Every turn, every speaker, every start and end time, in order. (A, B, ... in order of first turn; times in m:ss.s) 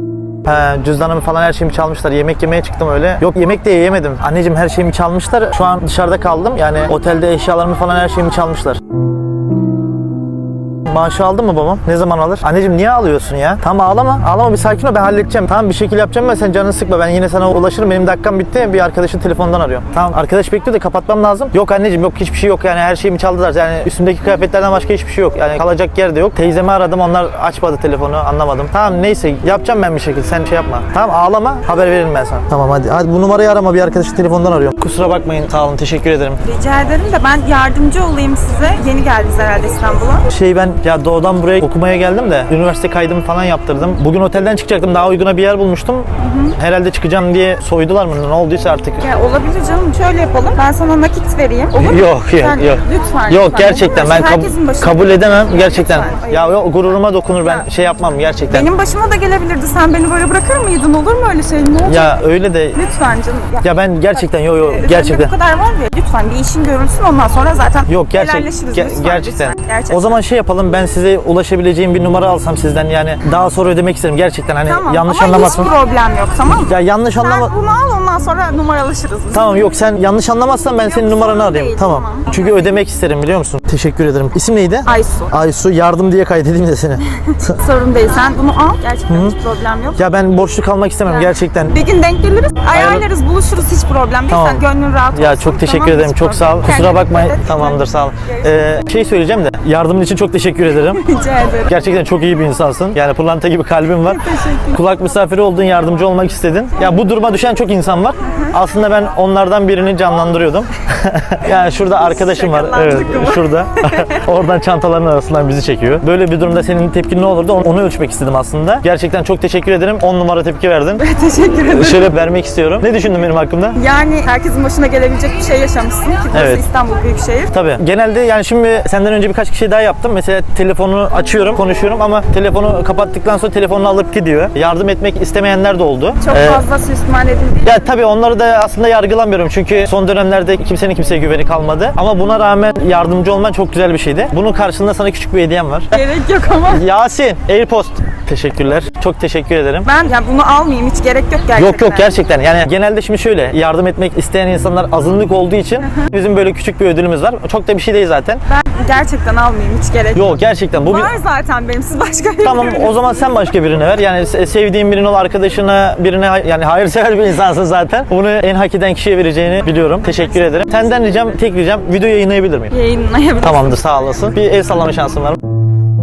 0:00.4-0:08.8 A
0:10.9-0:36.4 A
0:36.4-0:40.3 B
0:40.3-0:49.1 A
0:46.2-0:46.6 B
0:49.0-0:57.7 B
0:51.8-0:58.7 A
0:58.5-1:02.2 B
1:01.9-1:02.8 A
1:02.7-1:10.2 B
1:03.6-1:05.3 A
1:07.9-1:15.7 A
1:14.6-1:19.6 B
1:16.7-1:17.5 A
1:19.3-1:27.6 A
1:20.8-1:22.8 B
1:24.9-1:25.3 B
1:27.6-1:30.0 B
1:29.1-1:29.4 A
1:30.0-1:31.8 A
1:31.1-1:38.4 B
1:32.7-1:33.0 A
1:34.3-1:41.0 A
1:40.8-1:41.7 B
1:41.7-2:01.0 A
1:44.1-1:44.8 B
1:51.8-1:54.3 B
2:01.0-2:02.1 B
2:01.7-2:03.8 A
2:03.8-2:07.5 B
2:06.3-2:06.6 A
2:07.5-2:16.6 A
2:16.2-2:17.8 B
2:17.6-2:25.9 A
2:25.9-2:26.8 B
2:26.7-2:29.9 A
2:29.8-2:32.1 B
2:31.6-2:38.4 A
2:38.5-2:43.1 B
2:40.2-2:41.1 A
2:42.4-2:52.8 A
2:50.4-2:50.8 B
2:52.7-2:53.8 B
2:53.4-2:55.4 A